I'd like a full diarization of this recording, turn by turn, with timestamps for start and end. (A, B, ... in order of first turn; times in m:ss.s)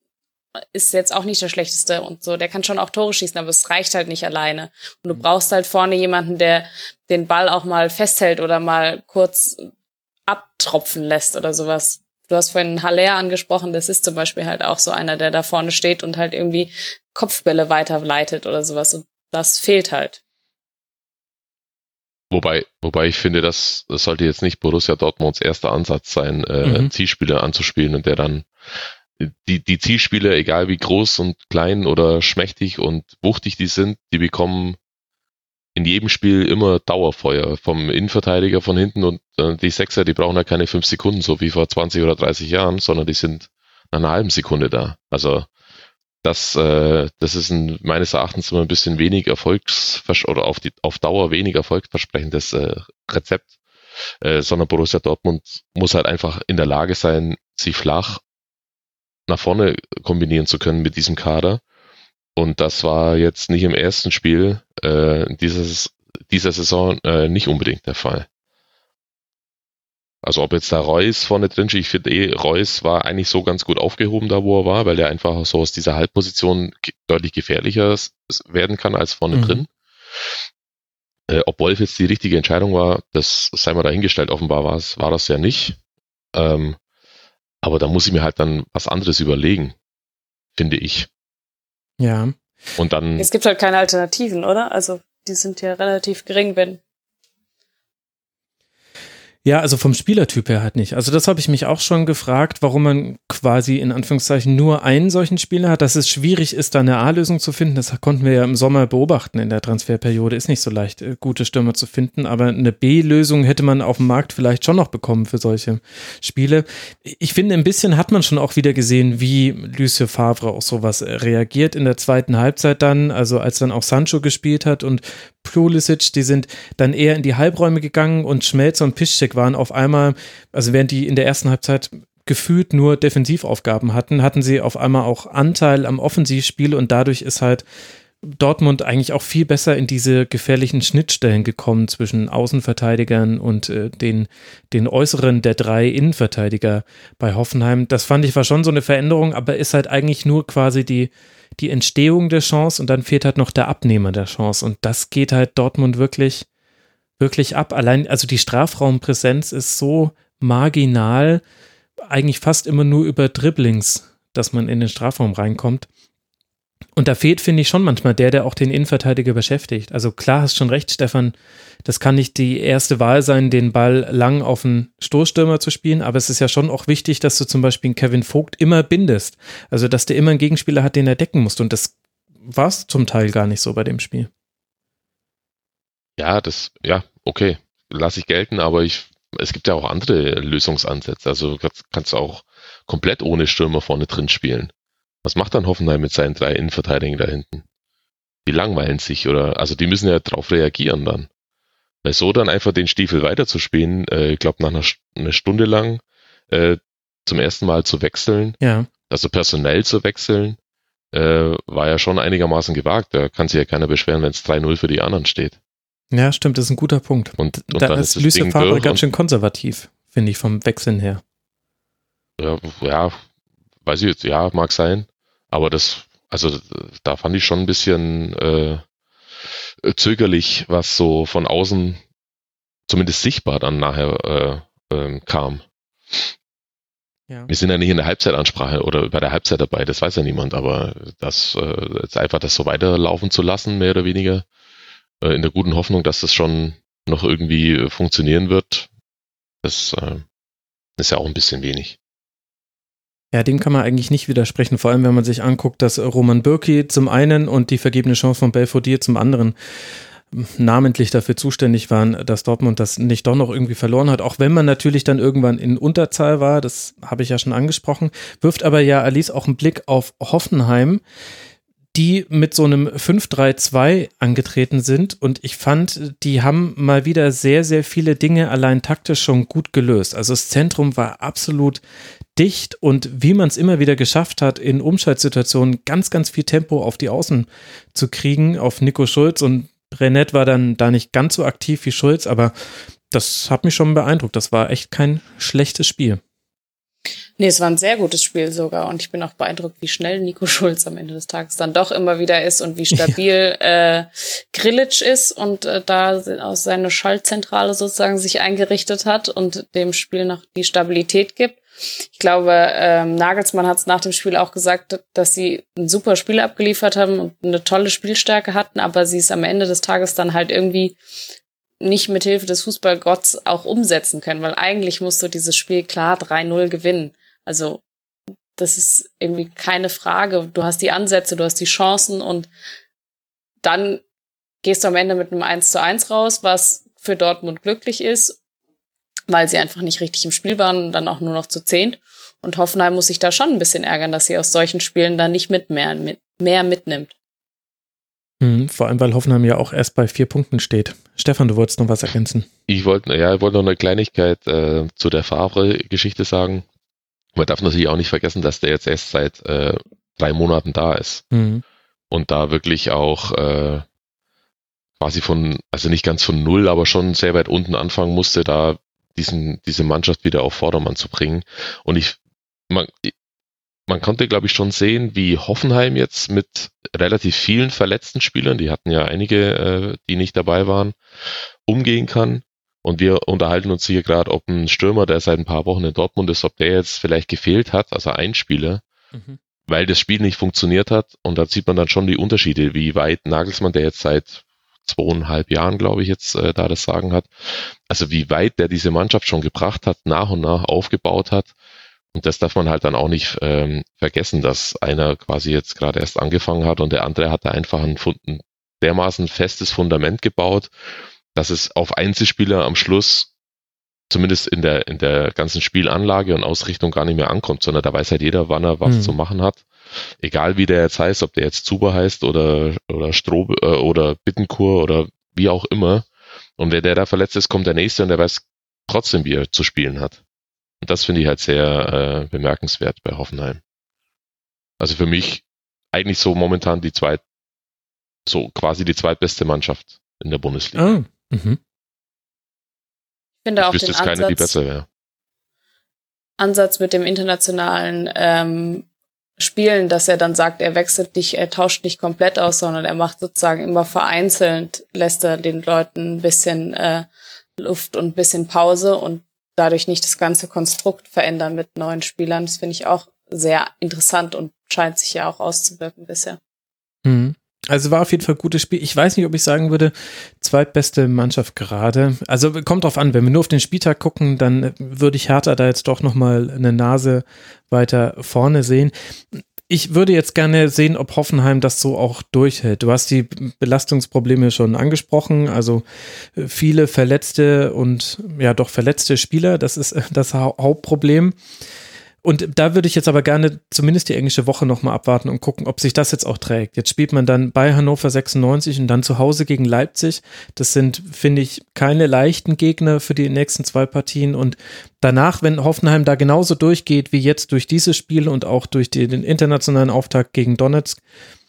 0:00.7-0:09.7 A
0:10.3-0:20.2 A
0:22.3-0:28.5 B
0:26.6-0:26.9 C
0:29.2-0:34.8 B
0:35.7-0:45.5 B
0:46.2-0:53.5 B
0:54.2-0:58.2 B
0:59.3-1:01.6 B
1:02.4-1:08.2 B
1:10.2-1:19.7 B
1:19.3-1:19.6 C
1:21.3-1:25.8 B
1:26.3-1:26.8 B
1:27.6-1:29.8 B
1:30.5-1:31.1 B
1:32.0-1:32.3 C
1:32.8-1:33.3 B
1:33.2-1:36.8 A
1:39.4-2:17.6 C
2:18.4-2:36.4 C
2:37.2-2:41.4 C
2:42.1-2:45.9 C
2:47.0-2:51.3 C
2:51.8-3:01.9 C
3:02.4-3:04.3 C
3:06.2-3:14.7 B
3:15.2-3:17.6 B
3:18.4-3:21.3 B
3:22.0-3:28.6 B
3:28.6-3:28.9 C
3:29.1-3:30.6 B
3:31.1-3:35.6 B
3:36.1-3:41.2 C
3:37.4-3:39.0 B
3:42.4-3:43.2 B
3:43.8-3:48.8 B
3:49.8-3:52.0 B
3:52.9-3:56.3 B
3:57.5-4:04.4 B
4:05.2-4:08.9 B
4:09.6-4:10.2 B
4:11.0-4:12.0 B
4:13.3-4:19.5 C
4:20.3-4:31.0 C
4:31.9-4:41.8 C
4:42.4-4:52.5 C
4:53.1-4:56.2 C
4:57.4-5:21.0 A
5:21.8-5:27.8 A
5:28.6-5:32.5 A
5:33.6-5:34.0 A
5:34.6-5:38.4 A
5:39.3-5:47.1 A
5:48.4-5:52.5 C
5:52.7-5:56.6 B
5:57.3-6:01.2 B
6:01.3-6:01.6 C
6:02.1-6:03.8 B
6:05.0-6:12.2 B
6:12.7-6:13.1 B
6:13.9-6:21.0 B
6:21.6-6:28.8 B
6:29.1-6:29.4 C
6:29.7-6:41.5 B
6:42.1-6:50.7 B
6:51.3-6:53.3 B
6:54.1-7:06.1 B
6:58.8-6:59.1 C
7:06.6-7:10.2 B
7:10.8-7:13.6 B
7:14.8-7:17.2 B
7:18.2-7:20.9 B
7:20.7-7:21.6 C
7:23.4-7:24.6 A
7:23.6-7:24.8 B
7:26.4-7:28.8 A
7:29.4-7:46.4 A
7:47.0-8:05.8 C
8:06.4-8:11.4 C
8:12.2-8:31.0 C